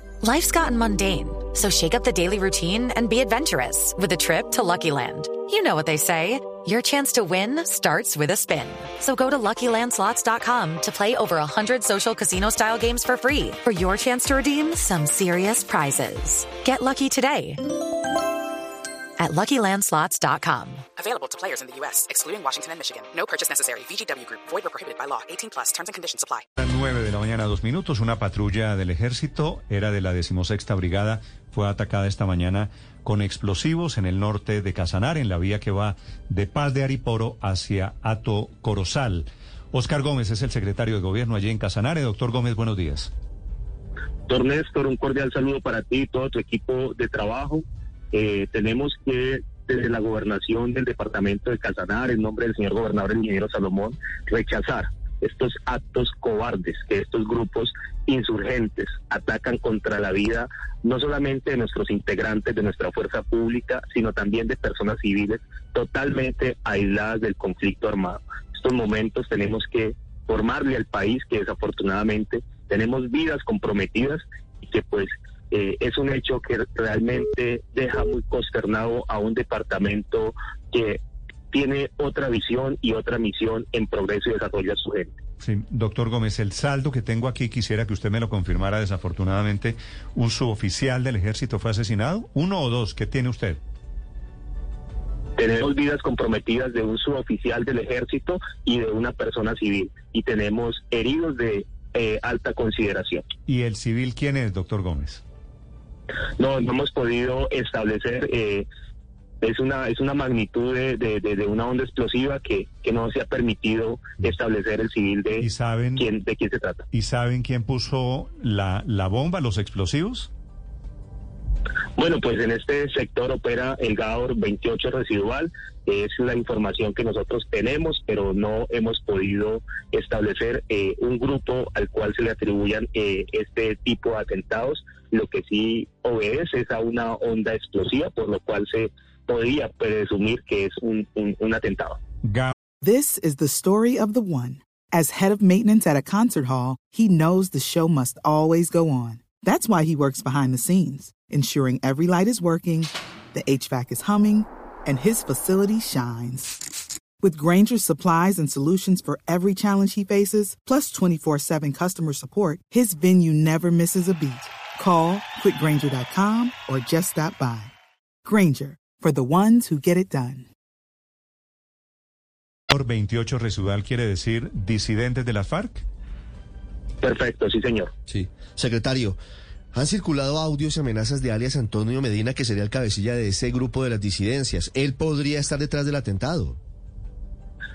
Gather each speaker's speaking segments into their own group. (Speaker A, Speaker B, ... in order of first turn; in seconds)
Speaker A: 0.2-17.6, 19.2-20.8
Speaker B: 21.0-26.4
Speaker C: 26.6-43.1, 85.4-93.6, 103.5-105.2, 115.4-116.0, 116.9-120.3, 142.2-142.5, 172.7-175.8
Speaker D: 44.3-81.0, 81.5-85.1, 95.4-103.2, 106.4-108.7, 109.4-116.8, 122.0-142.0, 177.0-177.9
Speaker E: 142.8-156.6, 157.2-167.7, 168.2-170.5
Speaker F: 178.1-179.2, 179.7-186.5